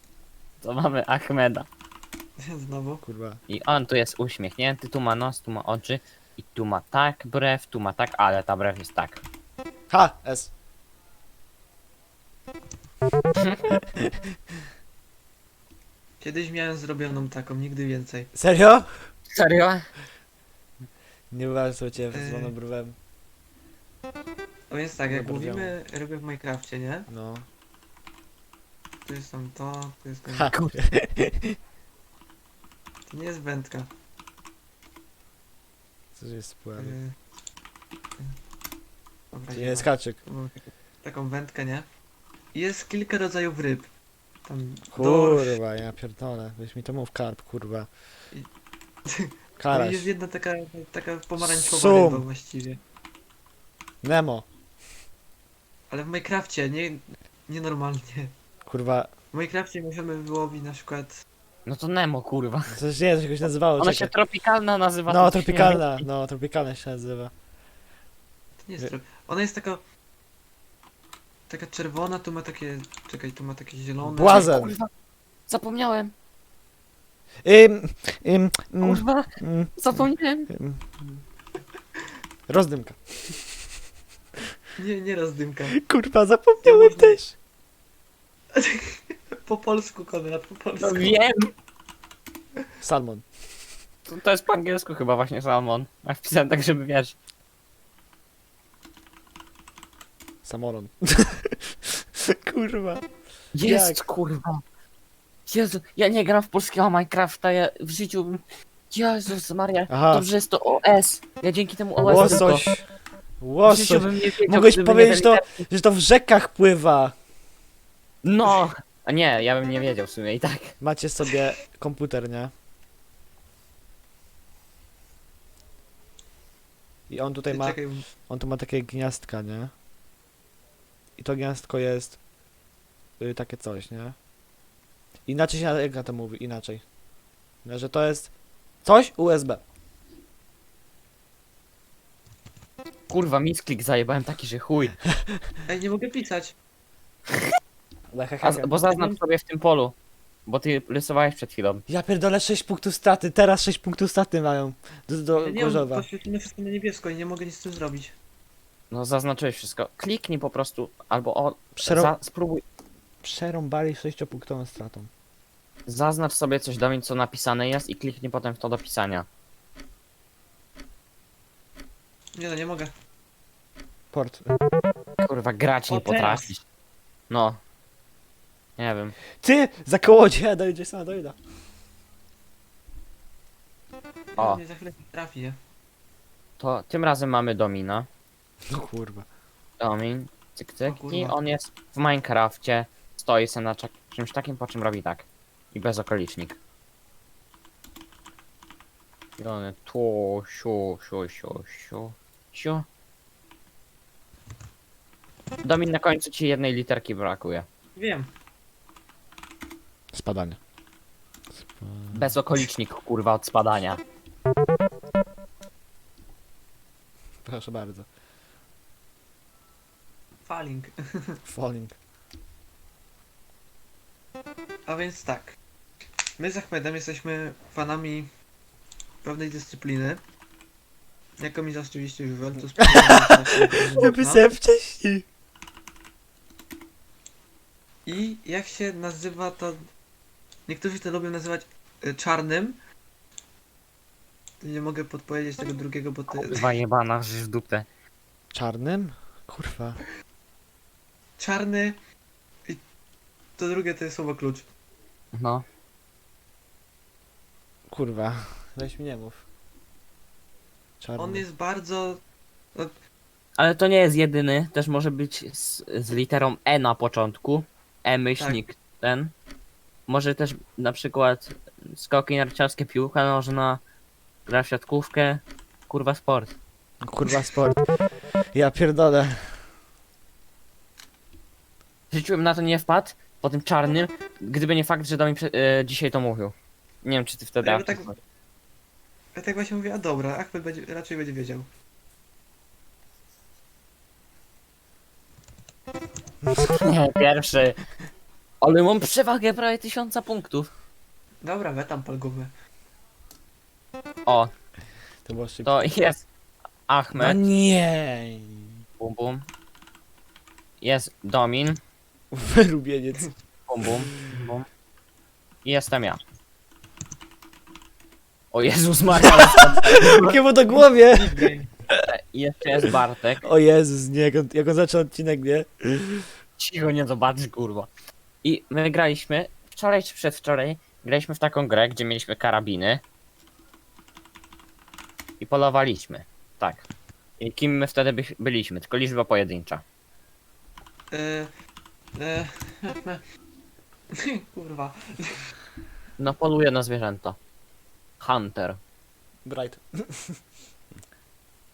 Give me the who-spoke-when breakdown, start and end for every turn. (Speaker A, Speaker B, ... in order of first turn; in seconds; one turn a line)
Speaker A: 0.6-1.7
Speaker B: 2.4-3.0
Speaker C: 3.0-3.4
Speaker A: 3.5-9.2
Speaker C: 9.9-10.5
Speaker C: 13.9-14.2
Speaker B: 16.2-18.3
Speaker C: 18.3-19.0
Speaker A: 19.3-19.8
Speaker C: 21.3-22.9
Speaker B: 22.1-22.5
Speaker B: 24.7-27.1
Speaker C: 25.1-25.7
Speaker C: 27.1-27.4
Speaker B: 29.1-30.5
Speaker C: 30.3-31.6
Speaker B: 33.1-33.9
Speaker C: 36.2-37.0
Speaker B: 36.8-37.1
Speaker B: 39.3-41.9
Speaker C: 39.5-40.2
Speaker B: 42.5-43.9
Speaker B: 44.4-45.6
Speaker C: 44.9-47.9
Speaker B: 49.0-52.8
Speaker C: 49.6-50.1
Speaker C: 51.4-52.3
Speaker C: 54.0-54.5
Speaker B: 55.9-58.3
Speaker C: 58.6-59.1
Speaker B: 59.3-61.2
Speaker A: 61.6-62.8
Speaker C: 62.7-64.1
Speaker A: 63.8-66.0
Speaker C: 65.1-67.3
Speaker B: 68.6-69.8
Speaker B: 71.5-74.5
Speaker C: 74.0-74.7
Speaker A: 74.3-74.9
Speaker A: 75.5-76.1
Speaker C: 77.4-79.8
Speaker A: 78.8-80.5
Speaker C: 80.5-81.2
Speaker C: 82.5-83.6
Speaker B: 84.8-85.8
Speaker C: 85.8-87.3
Speaker B: 86.6-87.2
Speaker B: 88.5-91.1
Speaker A: 90.8-91.5
Speaker C: 92.8-93.2
Speaker A: 94.0-97.1
Speaker C: 100.4-103.0
Speaker A: 103.5-104.6
Speaker C: 103.5-104.0
Speaker A: 105.5-112.6
Speaker C: 109.9-110.3
Speaker C: 112.0-112.8
Speaker C: 113.4-117.2
Speaker A: 113.6-115.6
Speaker A: 118.2-120.7
Speaker C: 120.8-122.5
Speaker C: 127.1-129.7
Speaker B: 127.5-128.1
Speaker C: 131.2-132.2
Speaker C: 133.2-134.2
Speaker C: 135.2-136.8
Speaker C: 137.6-138.3
Speaker C: 138.8-139.6
Speaker A: 143.1-145.0
Speaker B: 145.7-146.5
Speaker C: 148.1-148.7
Speaker A: 148.4-151.8
Speaker B: 148.9-149.2
Speaker C: 151.9-156.1
Speaker B: 155.4-158.1
Speaker A: 158.9-162.6
Speaker C: 161.8-162.1
Speaker C: 163.2-165.1
Speaker A: 165.9-169.2
Speaker B: 172.3-172.9
Speaker C: 174.1-174.5
Speaker A: 175.2-176.6
Speaker B: 175.9-176.5
Speaker A: 177.3-177.6
Speaker A: 178.8-179.2
Speaker C: 179.4-181.4
Speaker B: 184.3-185.6
Speaker A: 186.6-188.1
Speaker C: 188.7-189.2
Speaker A: 189.8-196.6
Speaker B: 190.8-191.4
Speaker A: 199.4-202.8
Speaker A: 205.6-207.7
Speaker B: 207.9-208.3
Speaker C: 210.1-210.6
Speaker C: 211.6-212.3
Speaker A: 212.1-214.0
Speaker C: 217.4-218.1
Speaker B: 220.4-221.4
Speaker C: 221.5-221.9
Speaker B: 224.9-225.6
Speaker B: 226.4-228.3
Speaker B: 229.2-230.2
Speaker B: 231.4-234.4
Speaker C: 232.9-233.3
Speaker C: 234.0-235.2
Speaker B: 238.1-239.9
Speaker B: 240.7-242.8
Speaker B: 244.6-246.7
Speaker A: 246.3-247.8
Speaker C: 248.5-250.0
Speaker B: 251.4-252.0
Speaker B: 253.6-254.7
Speaker A: 255.3-255.6
Speaker C: 257.9-259.4
Speaker C: 261.0-261.4
Speaker B: 261.1-262.2
Speaker A: 263.6-269.3
Speaker A: 270.1-273.8
Speaker A: 274.5-276.5
Speaker C: 277.0-277.9
Speaker C: 278.5-279.7
Speaker A: 282.1-288.1
Speaker B: 287.6-288.2
Speaker B: 289.3-291.7
Speaker A: 296.6-297.8
Speaker A: 298.6-300.7
Speaker B: 301.4-302.5
Speaker A: 304.2-304.5
Speaker C: 305.2-305.8
Speaker A: 305.6-306.2
Speaker A: 306.9-307.4
Speaker C: 307.1-308.8
Speaker A: 309.0-309.4
Speaker A: 310.8-311.8
Speaker C: 312.3-313.3
Speaker A: 313.7-314.7
Speaker A: 315.6-316.2
Speaker A: 318.5-320.4
Speaker C: 319.2-322.0
Speaker B: 321.1-321.7
Speaker A: 322.0-323.4
Speaker C: 323.4-326.3
Speaker A: 326.6-327.9
Speaker A: 328.4-333.0
Speaker A: 335.4-336.8
Speaker A: 337.4-339.8
Speaker B: 341.1-341.5
Speaker B: 342.1-343.2
Speaker B: 344.1-345.5
Speaker A: 346.2-347.4
Speaker A: 348.2-348.8
Speaker C: 349.4-350.4